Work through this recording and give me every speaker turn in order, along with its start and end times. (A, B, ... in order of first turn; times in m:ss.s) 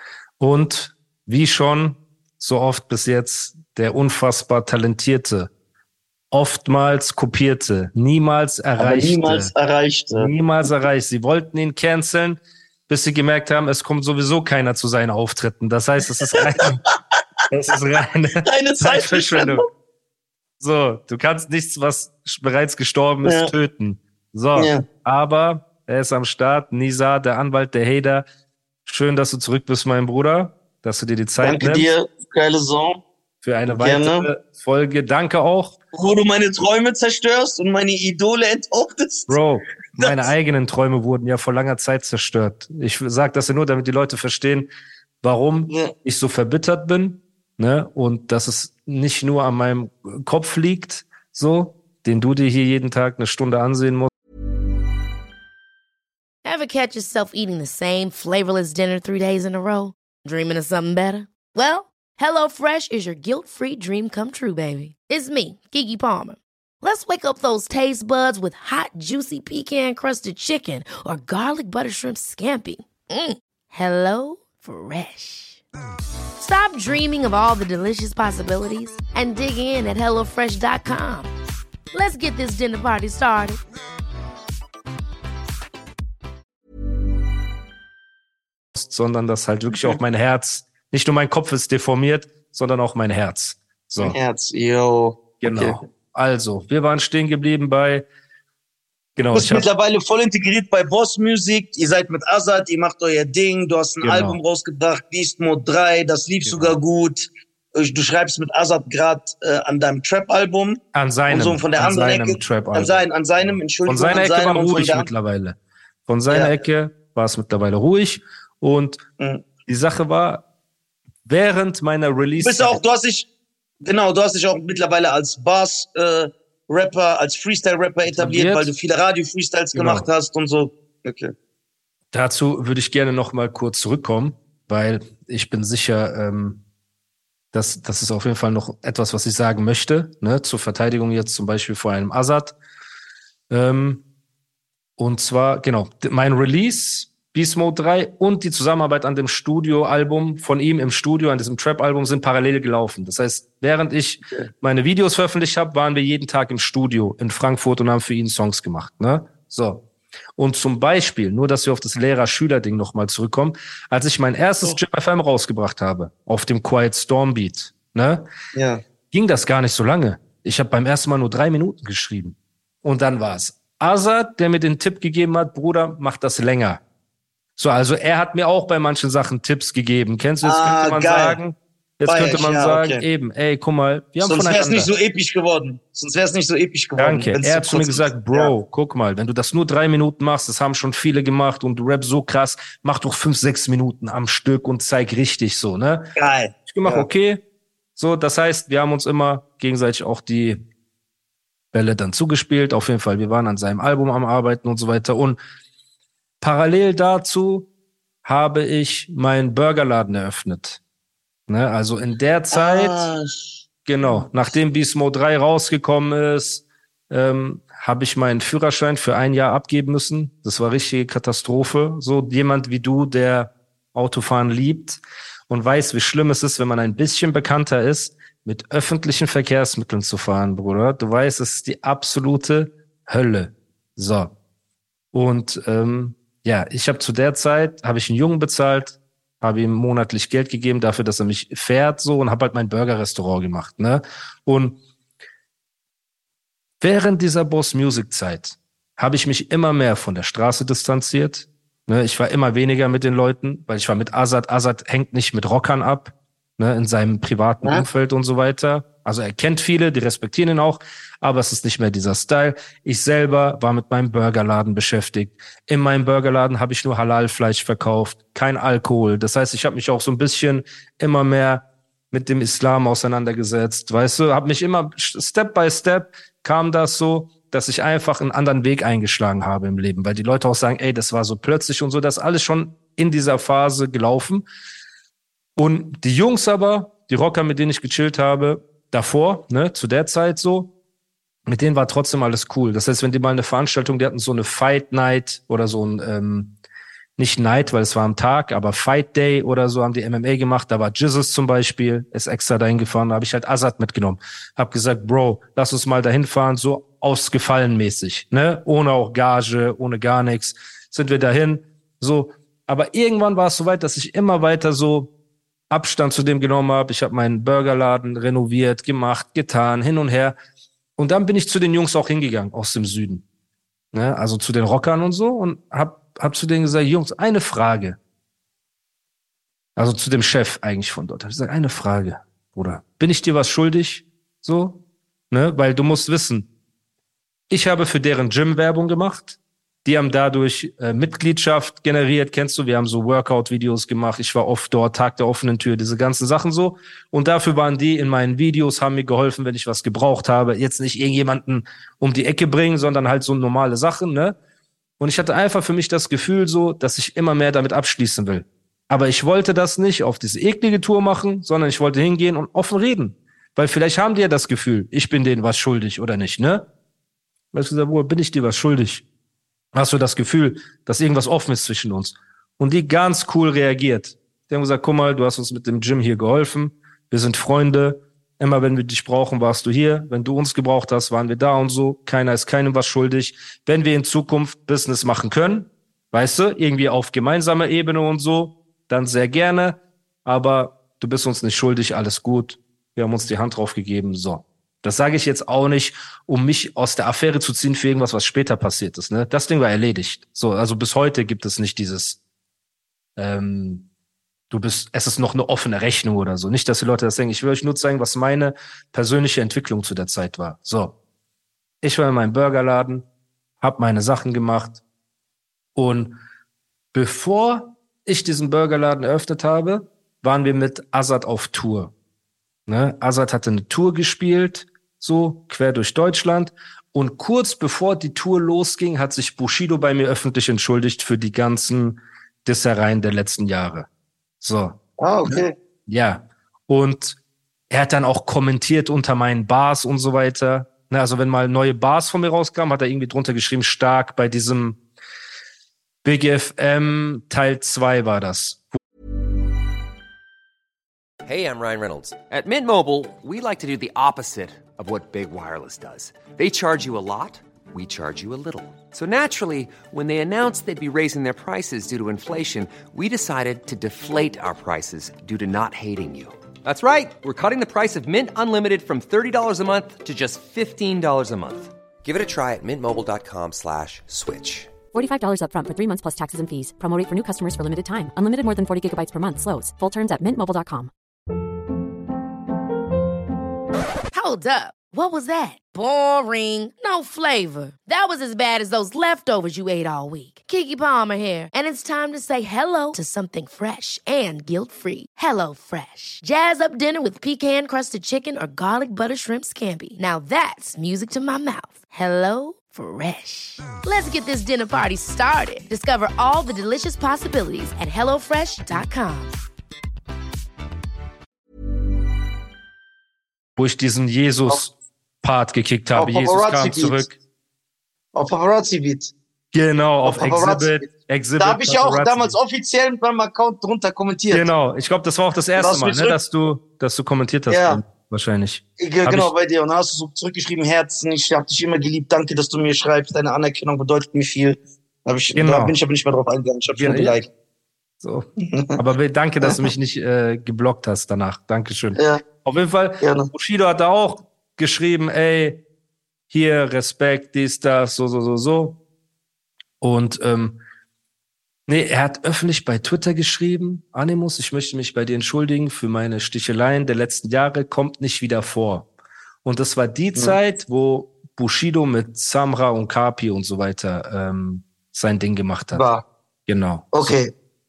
0:00.4-0:05.5 A
0:06.3-0:09.5 A
0:08.8-0:10.3 B
0:10.1-0:16.8 A
0:17.5-0:19.6 A
0:18.4-0:19.6 B
0:20.6-0:28.2 A
0:23.2-0:23.5 B
0:24.6-0:24.8 B
0:28.8-0:31.9 A
0:31.4-0:33.0 B
0:33.4-0:35.8 A
0:33.7-0:34.3 B
0:35.9-0:39.4 B
0:39.3-0:44.7 A
0:40.0-0:40.3 B
0:45.2-0:54.1 A
0:45.7-0:45.9 B
0:56.4-1:15.6 C
1:16.4-1:21.3 C
1:21.9-1:23.6 C
1:28.7-1:34.2 A
1:29.7-1:30.0 B
1:34.0-1:35.8 B
1:35.4-1:38.0 A
1:39.2-1:39.6 A
1:39.3-1:55.1 B
1:44.0-1:44.4 A
1:46.4-1:46.8 A
1:50.9-1:59.0 A
1:56.3-1:56.6 B
1:59.2-1:59.4 B
1:59.6-2:00.4 A
2:01.2-2:02.8 A
2:02.4-2:03.3 B
2:03.8-2:11.3 B
2:08.0-2:08.7 A
2:09.7-2:10.1 A
2:12.1-2:16.6 A
2:17.5-2:22.5 A
2:23.5-2:24.0 A
2:25.0-2:39.8 A
2:40.4-2:48.3 A
2:48.5-2:48.8 B
2:49.1-2:56.8 A
2:57.6-3:04.9 A
3:00.4-3:01.4 B
3:02.0-3:03.0 B
3:04.2-3:08.5 B
3:07.0-3:16.1 A
3:16.2-3:17.1 B
3:16.7-3:17.4 A
3:18.0-3:20.6 A
3:21.7-3:25.4 A
3:26.4-3:27.7 A
3:28.2-3:30.8 A
3:31.5-3:33.1 A
3:32.5-3:34.3 B
3:33.8-3:54.3 A
3:55.1-4:04.8 A
4:06.8-4:44.5 A
4:45.6-4:50.7 A
4:51.4-4:56.6 A
4:57.2-5:15.1 A
5:15.7-5:20.4 A
5:21.0-5:23.2 A
5:23.9-5:28.0 A
5:29.8-5:36.5 A
5:37.5-5:54.4 A
5:55.0-6:06.7 A
6:07.5-6:09.0 A
6:09.7-6:42.2 A
6:43.2-6:43.9 A
6:44.5-6:50.9 A
6:51.8-6:53.0 A
6:53.6-6:54.8 A
6:55.8-6:56.2 A
6:56.9-7:01.9 A
7:02.7-7:13.9 A
7:14.4-7:17.2 A
7:15.0-7:15.5 B
7:17.7-7:24.8 A
7:26.0-7:28.6 A
7:31.2-7:54.8 D
7:54.9-8:00.9 E
8:04.1-8:29.4 C
8:33.6-8:37.2 A
8:36.0-8:37.0 B
8:38.1-8:39.1 B
8:39.5-8:42.4 A
8:40.0-8:40.7 B
8:41.4-8:44.5 B
8:44.3-8:49.3 A
8:45.6-8:46.2 B
8:47.5-8:47.8 B
8:48.8-8:57.3 B
8:55.3-8:55.7 A
8:56.8-8:57.1 A
8:58.0-9:05.6 A
8:58.5-8:58.8 B
9:01.9-9:02.2 B
9:03.0-9:03.3 B
9:06.3-9:08.8 A
9:09.8-9:10.6 A
9:11.7-9:18.9 A
9:19.4-9:25.8 A
9:25.7-9:26.0 B
9:26.5-9:27.1 A
9:26.9-9:27.3 B